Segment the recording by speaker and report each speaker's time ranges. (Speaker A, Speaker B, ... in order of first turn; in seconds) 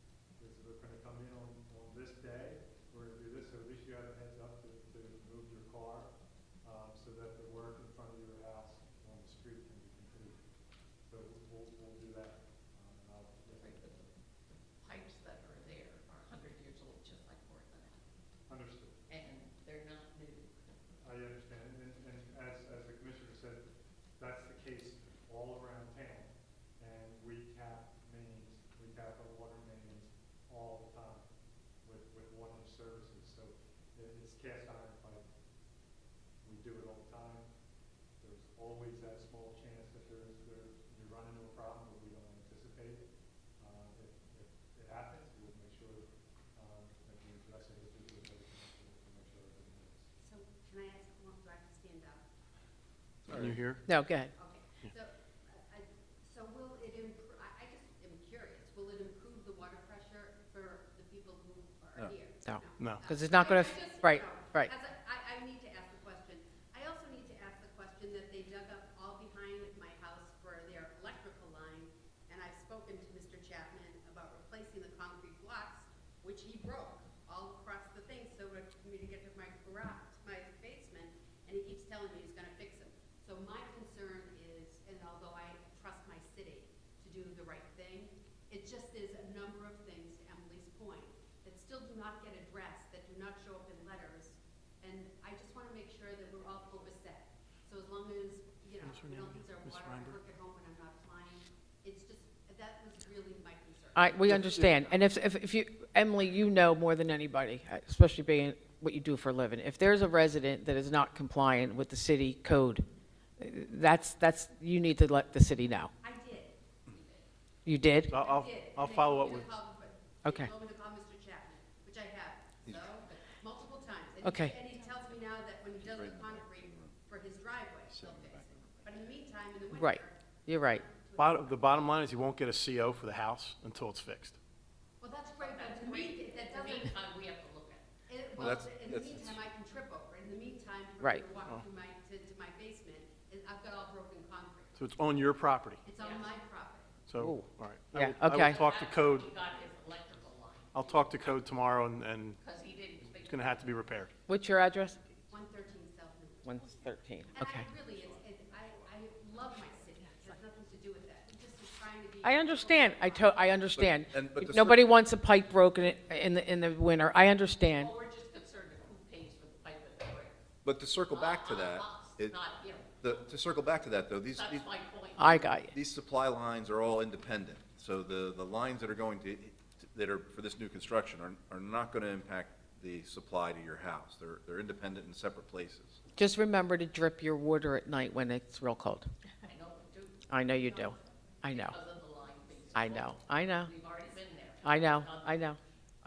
Speaker A: 0.4-10.4, 11.1-14.1, 18.5-19.0, 21.0-23.7, 24.2-31.3, 31.8-35.3, 36.4-37.5, 38.2-43.0, 43.6-50.1
Speaker B: 13.6-14.0, 14.8-18.0, 19.1-20.7, 135.3-137.8, 146.0-146.3, 148.3-150.8, 152.4-153.7, 167.7-170.4, 171.1-173.3, 174.3-175.5, 189.4-190.3, 191.5-195.5
Speaker C: 50.2-52.2, 54.2-105.0, 116.0-117.3, 118.1-131.8, 135.0-137.0, 138.1-144.8, 145.8-147.0, 155.3-156.7, 157.3-163.6, 190.5-191.2
Speaker D: 53.3-53.7, 104.3-104.7, 122.7-122.9, 125.8-127.0, 127.9-128.9, 138.4-139.4, 163.7-165.0, 170.6-172.4, 173.0-174.7, 175.2-186.0
Speaker E: 53.3-53.9, 62.8-63.1, 98.8-100.2, 118.1-119.6, 131.2-134.4, 144.8-145.8, 147.1-149.3, 150.7-152.4, 153.2-154.1
Speaker F: 53.9-54.3, 62.5-64.7, 104.0-112.9, 113.4-115.9, 117.7-118.1, 120.2-120.5, 124.2-124.6, 129.7-130.8, 141.0-141.3, 147.2-148.6, 154.3-155.0, 156.4-157.7, 162.2-167.9, 175.2-175.8, 186.2-189.1, 190.3-191.8, 192.7-193.7, 194.6-195.6